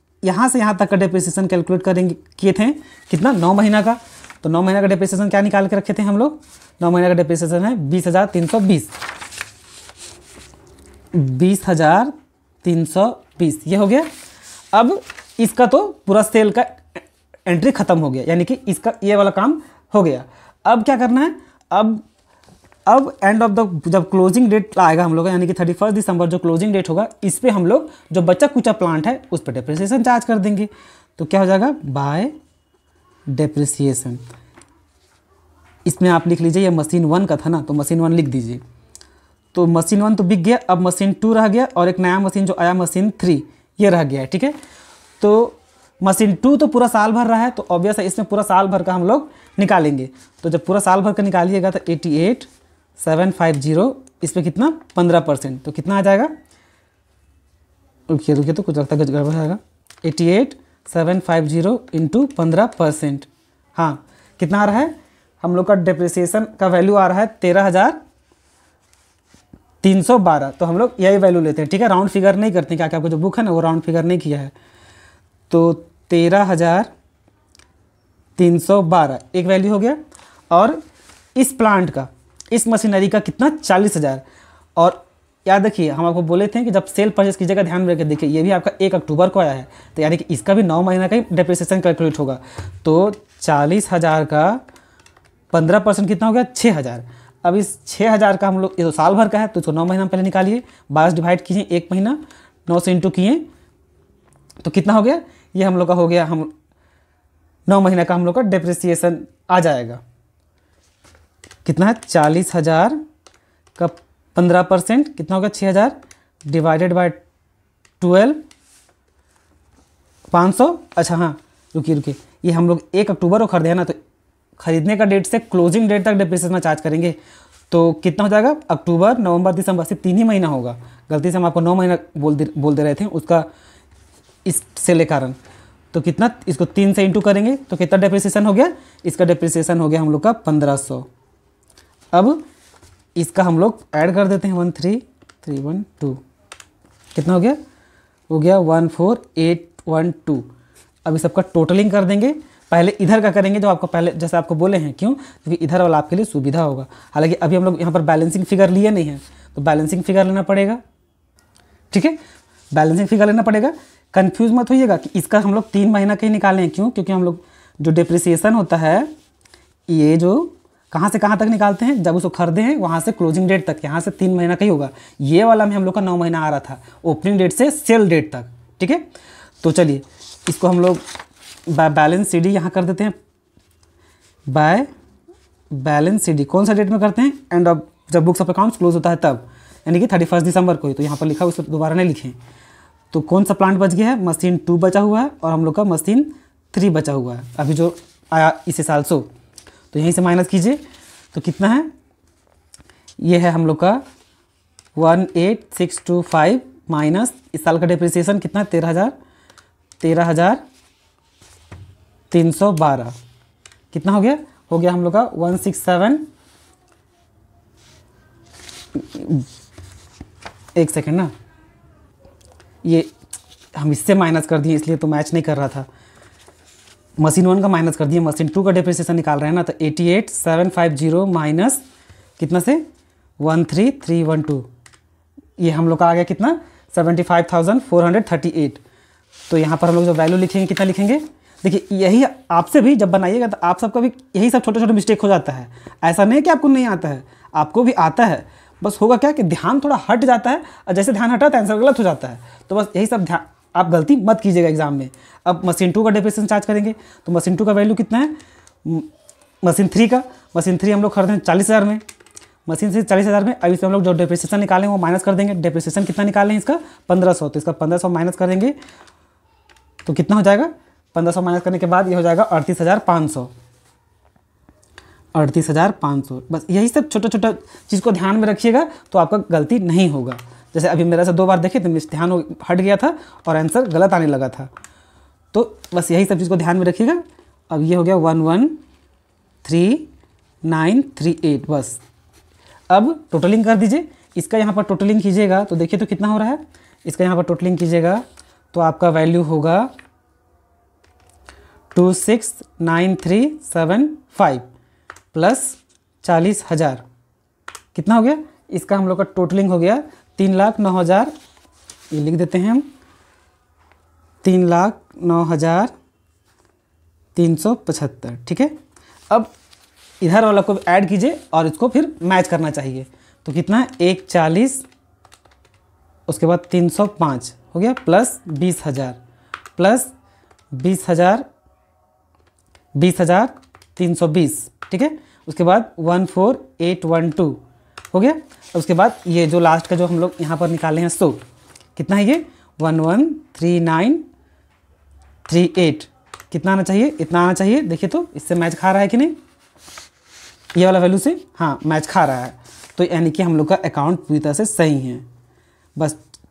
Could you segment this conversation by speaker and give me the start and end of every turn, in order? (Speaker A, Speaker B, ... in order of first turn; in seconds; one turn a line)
Speaker A: 0.2-8.9
Speaker A: 11.1-12.1
Speaker A: 12.6-14.1
Speaker A: 14.7-16.8
Speaker A: 17.5-22.0
Speaker A: 22.9-32.3
Speaker A: 33.3-34.2
Speaker A: 35.9-38.6
Speaker A: 39.5-44.5
Speaker A: 45.2-56.3
Speaker A: 58.1-68.0
Speaker A: 69.8-74.5
Speaker A: 75.5-76.9
Speaker A: 78.4-80.0
Speaker A: 80.5-80.8
Speaker A: 81.3-84.2
Speaker A: 84.8-94.6
Speaker A: 95.5-103.5
Speaker A: 104.6-106.5
Speaker A: 107.7-110.0
Speaker A: 111.6-113.0
Speaker A: 113.8-117.2
Speaker A: 118.0-118.4
Speaker A: 120.3-124.0
Speaker A: 124.6-127.2
Speaker A: 127.7-133.5
Speaker A: 134.4-135.4
Speaker A: 135.9-141.1
Speaker A: 142.1-142.4
Speaker A: 143.2-146.2
Speaker A: 147.1-147.6
Speaker A: 148.3-150.5
Speaker A: 151.0-160.8
Speaker A: 161.9-162.2
Speaker A: 162.7-169.1
Speaker A: 169.9-179.0
Speaker A: 179.6-181.0
Speaker A: 181.7-183.1
Speaker A: 184.5-184.9
Speaker A: 185.7-192.4
Speaker A: 193.1-199.3
Speaker A: 199.9-200.8
Speaker A: 201.3-201.9
Speaker A: 203.2-204.0
Speaker A: 204.9-209.1
Speaker A: 210.0-210.6
Speaker A: 212.3-213.1
Speaker A: 213.9-216.3
Speaker A: 218.9-219.5
Speaker A: 220.8-221.3
Speaker A: 222.8-223.1
Speaker A: 223.7-225.9
Speaker A: 227.2-231.8
Speaker A: 232.4-232.8
Speaker A: 233.4-234.7
Speaker A: 235.6-238.8
Speaker A: 239.5-259.1
Speaker A: 259.6-262.0
Speaker A: 262.6-268.7
Speaker A: 270.0-273.5
Speaker A: 275.3-284.7
Speaker A: 285.5-288.8
Speaker A: 289.6-290.1
Speaker A: 290.6-292.0
Speaker A: 292.9-299.9
Speaker A: 301.9-304.6
Speaker A: 305.3-307.0
Speaker A: 307.9-311.3
Speaker A: 312.1-312.9
Speaker A: 314.4-315.9
Speaker A: 317.3-318.7
Speaker A: 320.2-324.8
Speaker A: 326.3-329.2
Speaker A: 329.8-330.1
Speaker A: 330.7-331.4
Speaker A: 332.9-337.6
Speaker A: 338.1-341.4
Speaker A: 341.9-344.2
Speaker A: 345.5-349.3
Speaker A: 350.7-355.2
Speaker A: 355.9-356.2